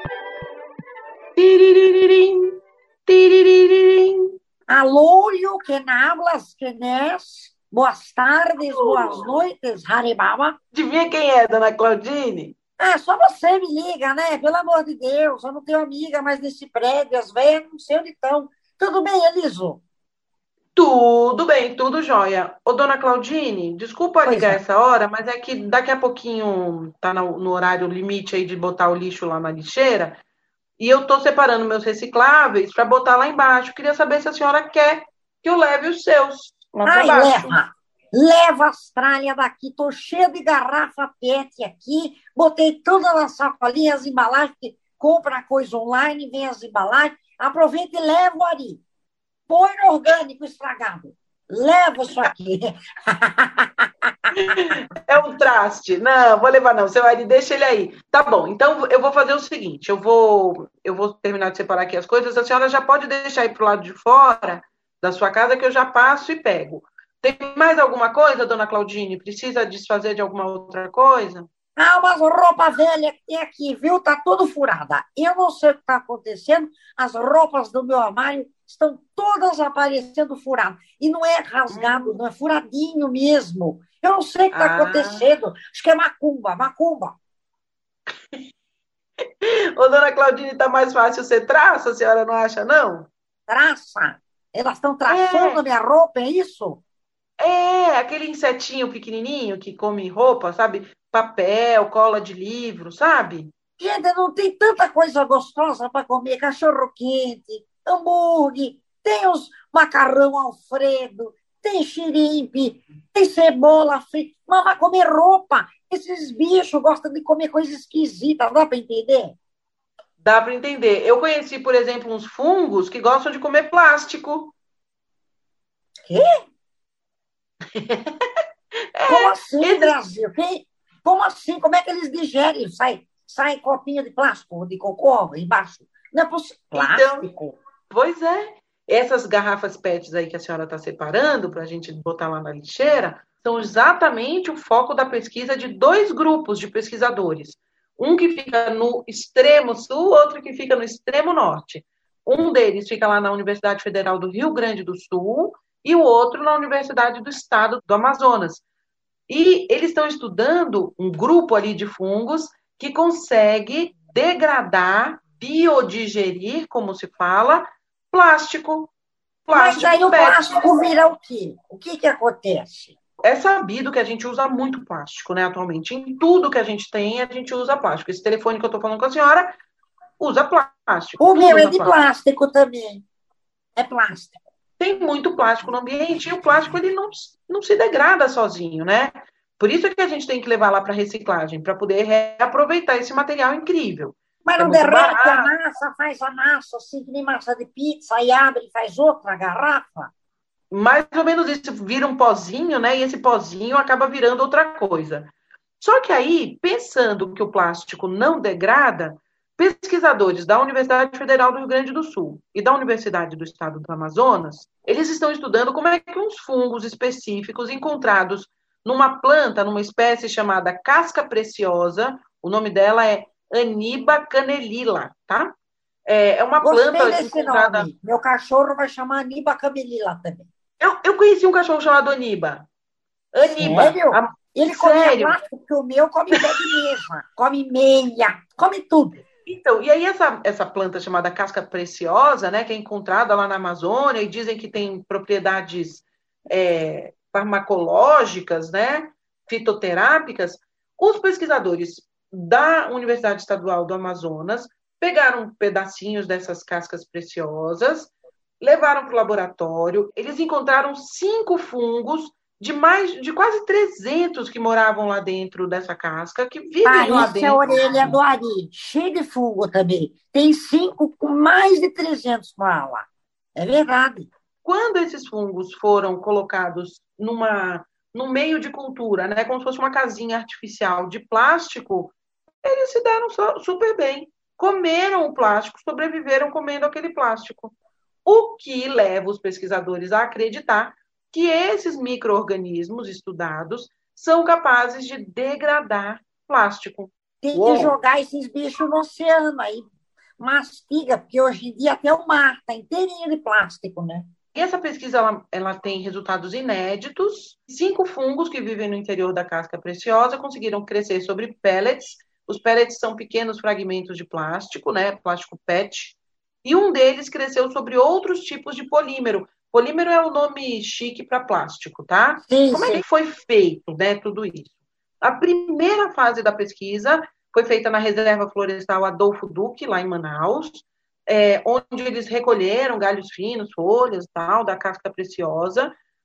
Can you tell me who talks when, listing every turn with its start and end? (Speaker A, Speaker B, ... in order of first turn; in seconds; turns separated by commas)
Speaker A: 1.4-2.5, Speaker A: 3.1-4.3, Speaker B: 4.7-10.6, Speaker A: 8.9-9.1, Speaker A: 10.7-12.6, Speaker B: 12.8-19.8, Speaker A: 20.7-30.2, Speaker B: 24.2-24.6, Speaker A: 30.8-37.6, Speaker B: 36.8-48.8, Speaker B: 49.5-53.8, Speaker A: 54.4-71.5, Speaker B: 71.8-87.2, Speaker A: 81.7-82.1, Speaker A: 84.5-85.2, Speaker A: 89.4-93.1, Speaker B: 93.5-96.8, Speaker A: 95.1-95.6, Speaker A: 97.4-103.5, Speaker B: 103.8-119.3, Speaker A: 120.2-124.5, Speaker B: 126.0-126.3, Speaker A: 127.7-128.1, Speaker A: 128.9-129.9, Speaker B: 129.1-137.6, Speaker A: 136.7-137.3, Speaker A: 137.9-158.6, Speaker A: 159.3-168.9, Speaker A: 169.4-170.4, Speaker B: 169.5-172.9, Speaker A: 173.2-179.6, Speaker A: 180.2-181.9, Speaker B: 181.2-183.0, Speaker B: 183.8-184.4, Speaker A: 184.8-195.5, Speaker B: 194.4-200.1, Speaker A: 200.7-225.5, Speaker A: 226.1-227.9, Speaker B: 226.6-230.5, Speaker A: 230.8-232.7, Speaker A: 233.3-235.4, Speaker B: 233.4-239.2, Speaker A: 239.4-268.1, Speaker B: 266.8-274.3, Speaker A: 274.6-297.9, Speaker B: 297.4-304.3, Speaker A: 304.5-335.9, Speaker B: 322.4-323.0